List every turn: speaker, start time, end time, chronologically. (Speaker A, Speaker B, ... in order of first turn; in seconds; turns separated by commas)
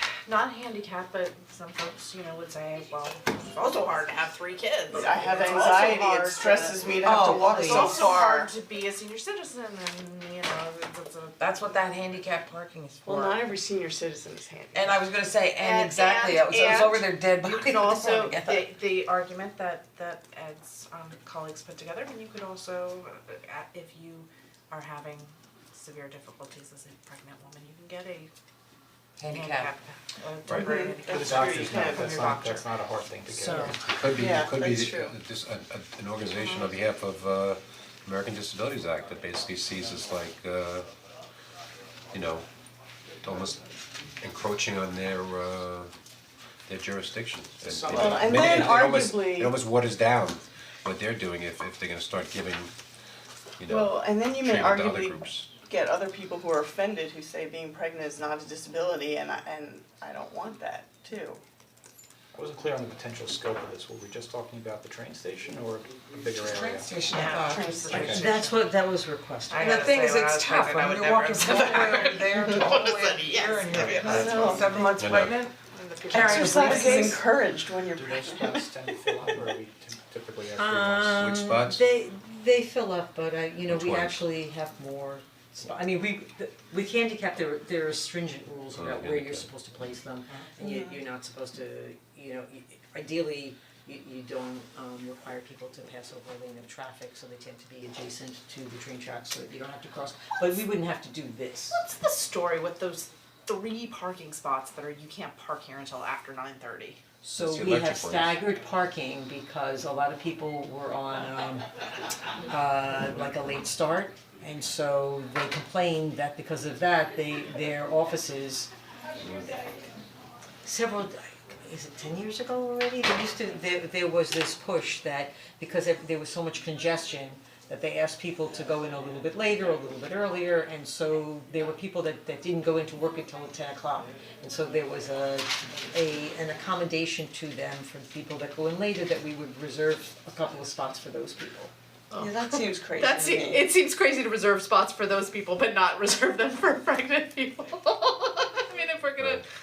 Speaker A: 0.2-11.9, Speaker B: 4.9-8.5, Speaker C: 7.0-8.2, Speaker C: 11.4-13.4, Speaker B: 13.0-15.0, Speaker C: 14.7-18.7, Speaker A: 15.6-28.3, Speaker C: 29.2-29.7, Speaker A: 29.2-32.8, Speaker B: 30.5-32.1, Speaker D: 31.0-34.2, Speaker A: 33.4-33.7, Speaker E: 33.4-33.7, Speaker F: 33.7-40.9, Speaker B: 34.1-35.2, Speaker F: 42.1-42.5, Speaker F: 43.2-43.6, Speaker F: 44.2-45.9, Speaker F: 46.7-52.7, Speaker D: 47.6-48.8, Speaker B: 47.9-49.5, Speaker F: 53.6-55.5, Speaker B: 53.7-61.4, Speaker D: 62.3-67.0, Speaker C: 66.4-68.3, Speaker A: 67.1-68.6, Speaker B: 67.2-67.9, Speaker D: 67.9-68.2, Speaker E: 67.9-69.9, Speaker A: 69.5-75.0, Speaker C: 69.6-75.5, Speaker B: 73.7-74.8, Speaker D: 73.7-74.0, Speaker F: 75.0-75.4, Speaker A: 75.6-77.2, Speaker C: 76.1-77.2, Speaker B: 76.1-78.7, Speaker D: 77.4-81.2, Speaker E: 80.6-101.8, Speaker F: 81.1-81.8, Speaker F: 83.7-84.2, Speaker F: 88.7-89.5, Speaker B: 90.6-91.0, Speaker A: 101.8-107.0, Speaker E: 107.2-111.7, Speaker F: 107.4-108.4, Speaker E: 112.5-118.7, Speaker E: 120.6-141.7, Speaker A: 142.1-149.4, Speaker B: 142.1-143.7